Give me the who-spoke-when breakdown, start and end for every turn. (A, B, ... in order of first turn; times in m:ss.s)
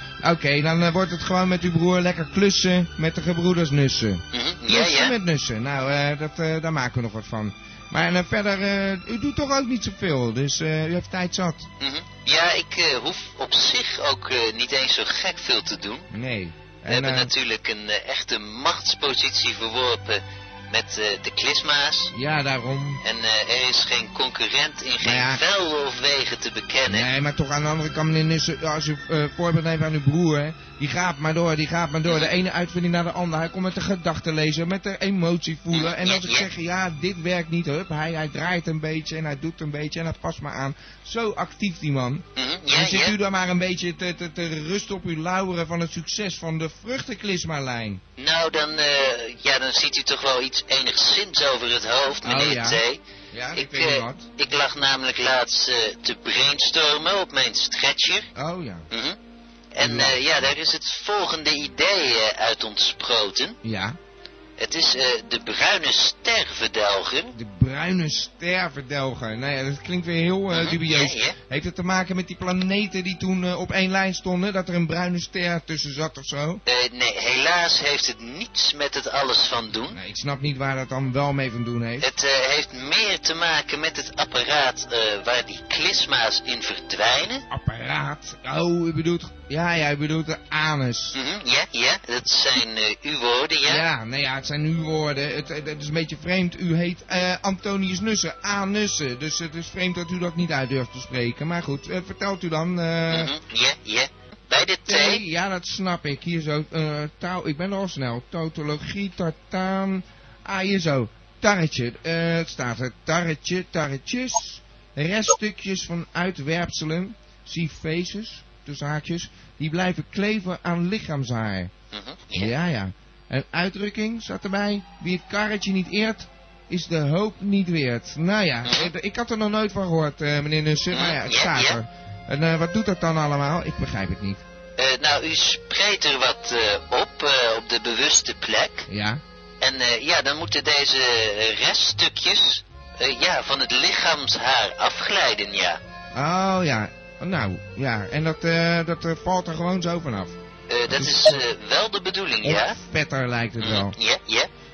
0:00.2-0:11.7 A
0:04.3-0:05.2 B
0:11.8-0:16.1 B
0:16.1-0:17.3 A
0:16.9-0:22.1 B
0:22.1-0:23.0 A
0:23.0-0:27.1 B
0:25.0-0:25.4 A
0:26.9-0:48.0 A
0:35.7-0:36.5 B
0:42.4-0:43.2 B
0:48.2-0:53.0 B
0:52.2-0:52.8 A
0:53.3-0:54.3 A
0:53.5-0:58.3 B
0:58.4-0:58.9 A
0:58.9-0:59.2 B
0:59.7-1:03.6 B
0:59.8-1:00.2 A
1:03.6-1:04.0 A
1:04.6-1:07.4 B
1:07.4-1:16.6 A
1:10.5-1:11.4 B
1:16.7-1:20.0 B
1:19.9-1:22.1 A
1:22.0-1:27.5 B
1:27.5-1:31.2 A
1:31.1-1:33.8 B
1:33.6-1:43.3 A
1:43.1-1:45.2 B
1:44.9-2:01.7 A
2:01.9-2:02.5 B
2:02.3-2:14.4 A
2:08.6-2:08.9 B
2:10.9-2:11.8 B
2:14.8-2:18.9 B
2:18.9-2:19.2 A
2:19.6-2:25.8 B
2:26.1-2:30.4 A
2:30.7-2:32.8 B
2:30.9-2:31.4 A
2:32.4-2:34.0 A
2:33.6-2:34.5 B